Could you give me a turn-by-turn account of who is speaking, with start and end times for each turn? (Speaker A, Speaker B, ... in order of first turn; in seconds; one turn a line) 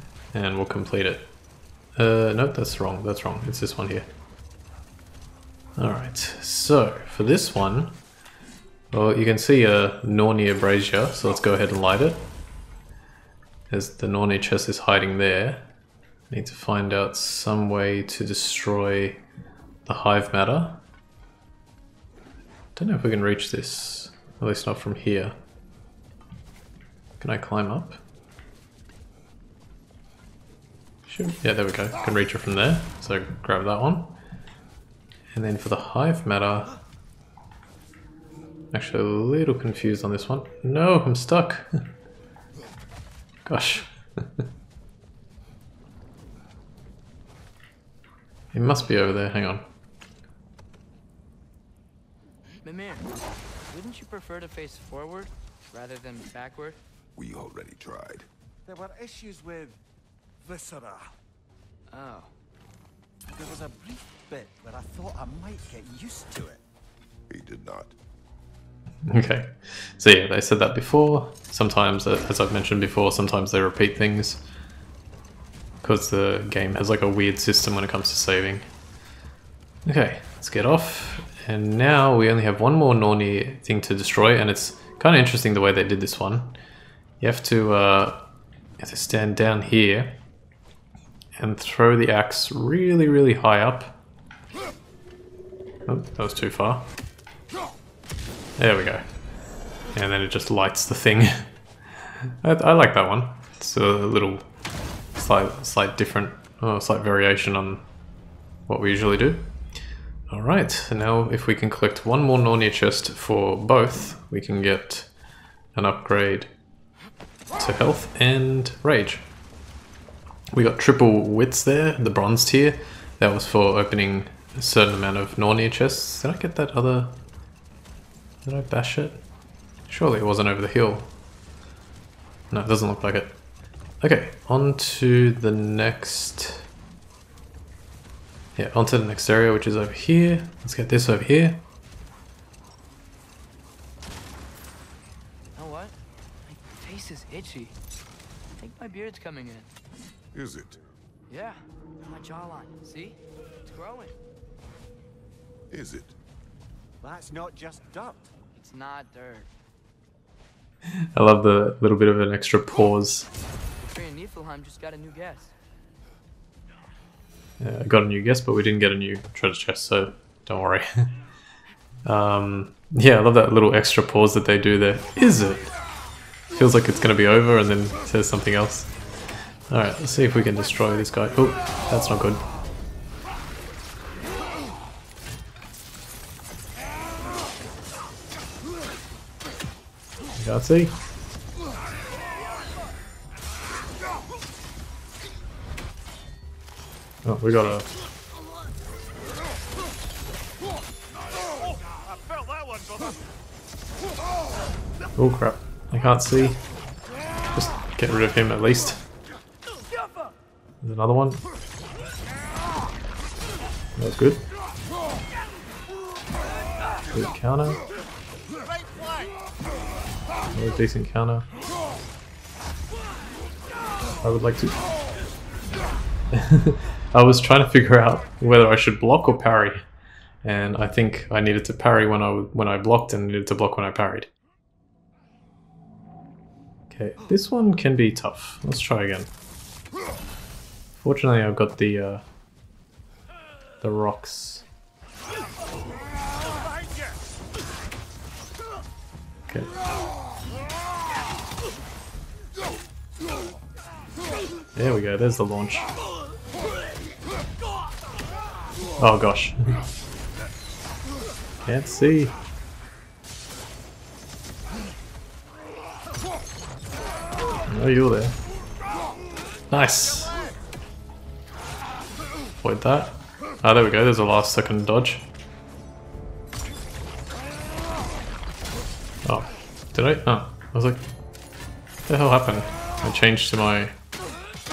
Speaker A: 0.3-1.3
Speaker A: 2.0-4.1
Speaker A: 5.8-8.0
Speaker A: 8.9-12.3
Speaker A: 13.7-15.7
Speaker A: 16.3-19.2
Speaker A: 19.9-20.8
Speaker A: 22.8-25.3
Speaker A: 27.2-28.0
Speaker A: 31.1-34.2
Speaker A: 35.3-36.7
Speaker A: 38.7-41.8
Speaker A: 43.5-44.4
Speaker A: 48.5-49.6
Speaker B: 52.6-56.8
Speaker C: 57.1-58.3
Speaker D: 58.6-59.8
Speaker D: 60.4-61.1
Speaker B: 61.9-62.3
Speaker D: 63.3-66.6
Speaker C: 67.3-67.9
Speaker A: 69.0-74.4
Speaker A: 75.8-78.6
Speaker A: 79.8-86.6
Speaker A: 87.2-88.2
Speaker A: 88.8-90.2
Speaker A: 91.4-94.0
Speaker A: 95.9-96.9
Speaker A: 98.6-99.0
Speaker A: 99.9-101.5
Speaker A: 102.2-104.5
Speaker A: 105.2-107.8
Speaker A: 108.7-109.5
Speaker A: 110.3-115.1
Speaker A: 115.7-116.5
Speaker A: 117.5-119.2
Speaker A: 120.5-127.2
Speaker A: 128.4-129.2
Speaker A: 129.9-131.1
Speaker A: 132.5-133.4
Speaker A: 134.0-136.7
Speaker A: 138.6-141.6
Speaker B: 145.5-147.8
Speaker B: 148.6-149.7
Speaker C: 150.3-150.8
Speaker B: 151.3-154.2
Speaker C: 155.7-156.2
Speaker D: 157.0-158.3
Speaker B: 158.5-159.5
Speaker A: 161.1-163.3
Speaker B: 163.8-165.5
Speaker A: 167.6-171.1
Speaker A: 172.0-175.7
Speaker A: 176.5-178.9
Speaker A: 179.7-182.4
Speaker A: 190.4-190.9
Speaker A: 197.2-197.9
Speaker D: 201.6-203.2
Speaker A: 205.2-206.6
Speaker A: 207.5-209.0
Speaker A: 210.8-211.4
Speaker A: 214.0-214.4
Speaker A: 217.1-217.8
Speaker D: 218.6-219.3
Speaker A: 220.5-221.4
Speaker A: 224.2-224.8
Speaker A: 226.3-229.8
Speaker A: 230.4-234.3
Speaker A: 236.9-239.3
Speaker A: 240.9-242.2
Speaker A: 243.8-244.6
Speaker A: 254.8-255.9
Speaker A: 259.0-259.8
Speaker A: 261.6-262.3
Speaker A: 267.7-268.4
Speaker A: 269.7-270.4
Speaker A: 272.6-275.2
Speaker A: 279.2-281.0
Speaker A: 282.1-283.9